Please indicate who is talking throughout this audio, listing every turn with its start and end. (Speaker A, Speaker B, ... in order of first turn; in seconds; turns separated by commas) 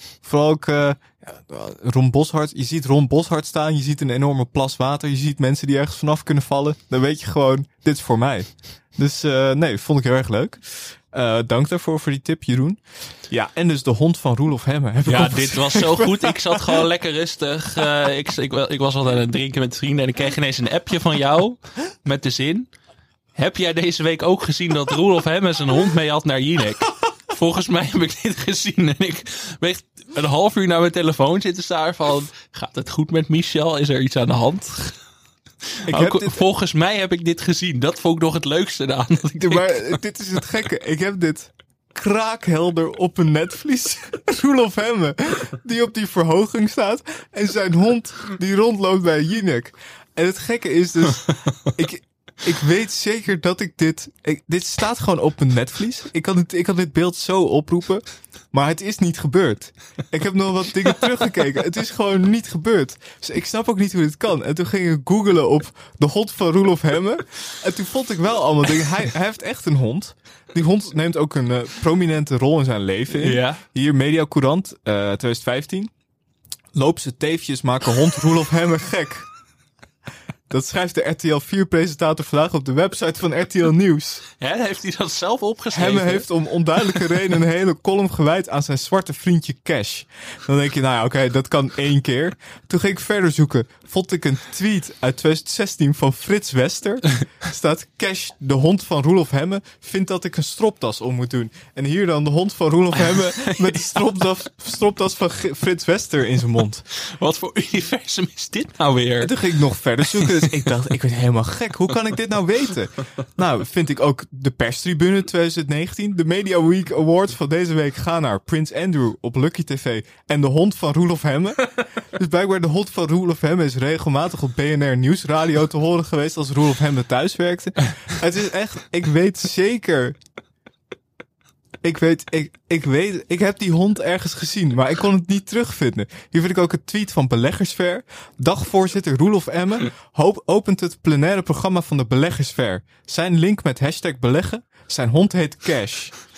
Speaker A: 0.2-16.8, Speaker B: 15.1-22.7, Speaker B: 23.4-35.0, Speaker B: 35.9-40.0, Speaker A: 35.9-36.4, Speaker A: 39.4-75.9, Speaker B: 73.2-73.6, Speaker A: 76.7-79.3, Speaker A: 80.5-84.2, Speaker B: 84.4-86.3, Speaker A: 85.7-106.8, Speaker B: 106.9-109.4, Speaker A: 109.2-130.2, Speaker B: 110.1-110.6, Speaker A: 131.8-146.1